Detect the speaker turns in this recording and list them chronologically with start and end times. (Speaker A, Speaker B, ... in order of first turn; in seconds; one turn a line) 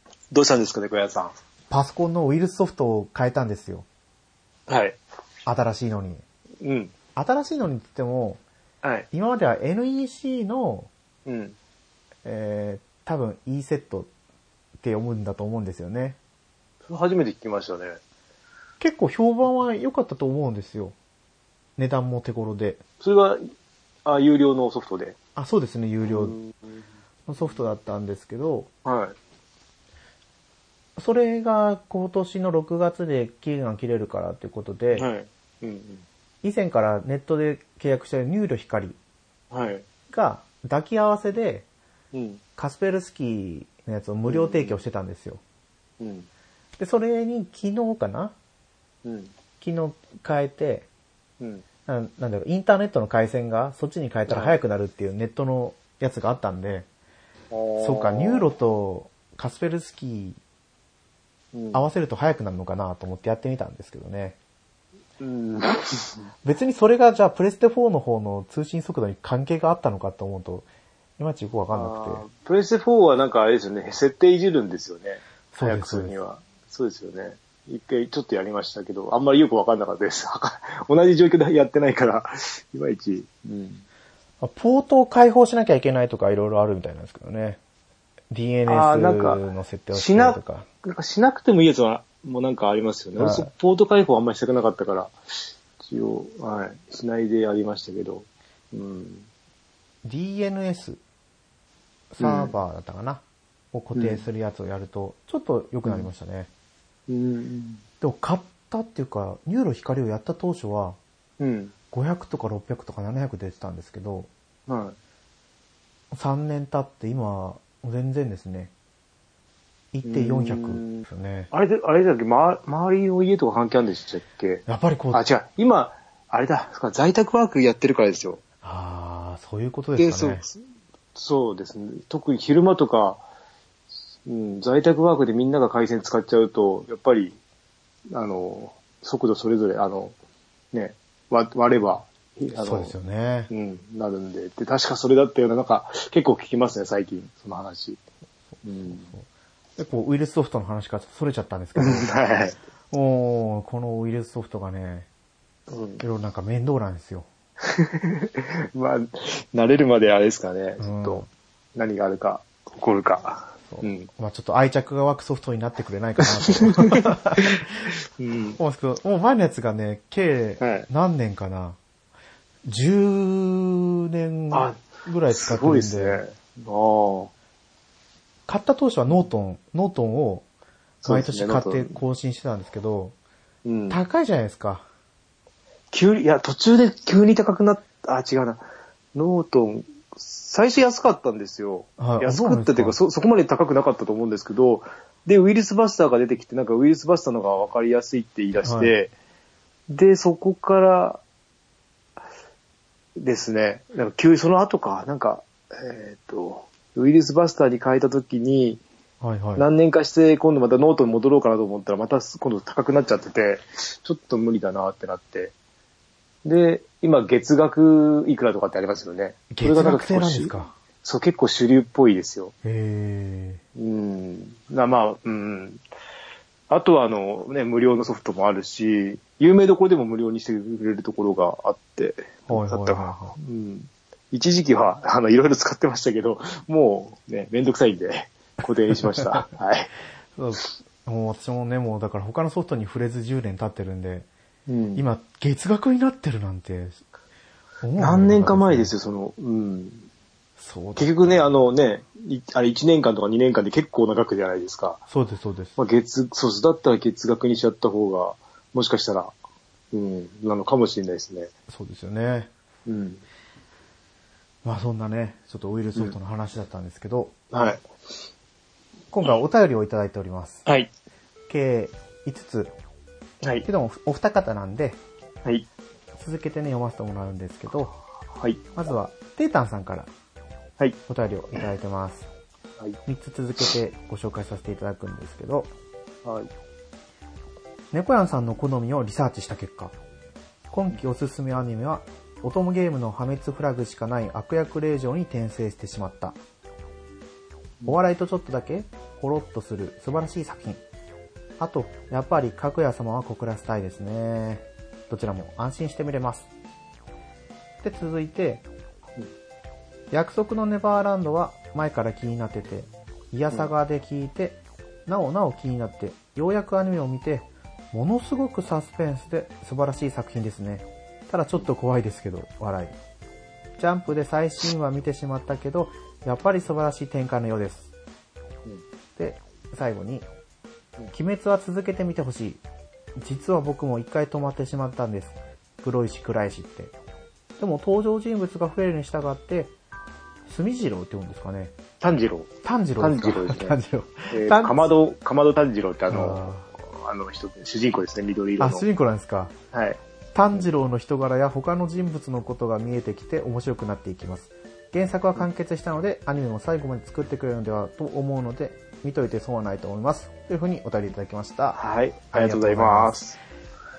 Speaker A: 0.3-1.3
Speaker B: 1.7-3.9
Speaker A: 4.7-5.0
Speaker B: 5.5-6.2
Speaker A: 6.6-6.9
Speaker B: 7.2-8.4
Speaker B: 9.1-10.9
Speaker A: 11.3-11.6
Speaker B: 12.2-14.1
Speaker B: 14.8-16.2
Speaker A: 16.9-18.0
Speaker B: 18.8-20.9
Speaker B: 21.8-22.8
Speaker A: 23.0-23.4
Speaker A: 24.1-25.1
Speaker B: 25.4-26.4
Speaker A: 26.1-26.6
Speaker B: 27.3-28.7
Speaker A: 28.9-29.1
Speaker B: 31.0-35.1
Speaker A: 35.0-36.0
Speaker B: 36.4-39.0
Speaker A: 39.5-39.9
Speaker B: 40.1-41.7
Speaker A: 42.1-42.4
Speaker B: 42.6-45.4
Speaker A: 44.3-44.8
Speaker A: 46.0-46.3
Speaker B: 46.8-48.4
Speaker A: 49.0-49.3
Speaker B: 49.6-50.9
Speaker B: 51.9-56.9
Speaker A: 54.3-54.6
Speaker A: 57.5-58.5
Speaker B: 57.8-60.4
Speaker A: 61.5-61.9
Speaker B: 61.7-64.4
Speaker A: 65.2-66.3
Speaker B: 66.4-70.7
Speaker B: 71.2-72.2
Speaker A: 71.7-83.8
Speaker B: 75.5-76.2
Speaker B: 84.4-87.6
Speaker B: 88.3-90.7
Speaker A: 88.7-95.1
Speaker B: 93.2-93.5
Speaker A: 95.8-99.3
Speaker B: 100.0-101.0
Speaker B: 102.1-106.5
Speaker A: 102.2-102.6
Speaker A: 103.9-104.3
Speaker A: 107.1-107.8
Speaker B: 108.0-111.0
Speaker A: 111.4-111.7
Speaker B: 111.9-114.3
Speaker A: 114.7-115.0
Speaker B: 116.1-118.7
Speaker B: 119.9-121.5
Speaker A: 120.0-128.4
Speaker B: 124.7-125.2
Speaker B: 128.6-130.4
Speaker A: 130.0-130.6
Speaker A: 131.2-133.2
Speaker A: 134.2-137.3
Speaker A: 138.1-140.2
Speaker A: 140.7-142.9
Speaker B: 142.6-143.5
Speaker A: 143.5-148.0
Speaker A: 148.6-149.1
Speaker B: 148.9-149.2
Speaker B: 149.8-152.1
Speaker A: 151.8-152.6
Speaker B: 152.9-155.1
Speaker A: 155.7-156.0
Speaker B: 156.0-157.3
Speaker A: 157.6-161.2
Speaker B: 160.8-161.3
Speaker A: 161.8-164.1
Speaker B: 163.7-167.6
Speaker A: 166.2-168.6
Speaker B: 168.6-171.8
Speaker A: 170.6-170.9
Speaker B: 172.7-176.2
Speaker A: 174.5-177.3
Speaker B: 178.5-180.4
Speaker A: 181.0-182.0
Speaker B: 181.1-183.2
Speaker A: 183.7-184.0
Speaker B: 183.9-184.9
Speaker A: 185.9-199.1
Speaker B: 192.0-193.0
Speaker B: 198.6-198.9
Speaker A: 199.9-201.2
Speaker A: 203.2-208.8
Speaker B: 209.2-209.7
Speaker A: 209.6-215.5
Speaker A: 216.4-222.5
Speaker B: 219.5-220.8
Speaker B: 222.6-223.6
Speaker A: 223.8-225.8
Speaker A: 226.7-239.9
Speaker B: 232.5-233.4
Speaker B: 240.4-244.3
Speaker A: 244.7-245.1
Speaker B: 245.0-247.0
Speaker B: 247.8-248.9
Speaker A: 248.0-250.1
Speaker B: 250.6-251.4
Speaker A: 251.0-255.0
Speaker B: 255.1-255.8
Speaker A: 255.8-259.3
Speaker A: 259.9-261.5
Speaker B: 261.7-262.5
Speaker A: 262.9-263.2
Speaker B: 264.6-267.3
Speaker A: 267.5-267.8
Speaker B: 269.1-270.6
Speaker A: 270.7-270.9
Speaker B: 271.5-272.7
Speaker A: 273.4-273.7
Speaker B: 273.6-275.0
Speaker B: 276.2-277.9
Speaker B: 278.8-280.1
Speaker B: 281.1-282.3
Speaker B: 283.1-285.7
Speaker A: 286.2-286.5
Speaker B: 287.9-289.9
Speaker B: 290.7-296.4
Speaker B: 297.9-300.8
Speaker B: 301.6-306.5
Speaker B: 307.8-308.6
Speaker B: 310.1-323.0
Speaker B: 323.8-327.9
Speaker B: 329.2-330.2
Speaker B: 331.1-332.6
Speaker B: 333.2-336.9
Speaker B: 337.6-339.7
Speaker B: 340.5-341.8
Speaker A: 342.0-343.8
Speaker B: 342.6-344.9
Speaker A: 344.3-348.9
Speaker B: 346.1-346.7
Speaker B: 348.6-349.5
Speaker A: 349.7-350.0
Speaker B: 350.3-361.8
Speaker A: 361.8-363.4
Speaker B: 362.3-363.2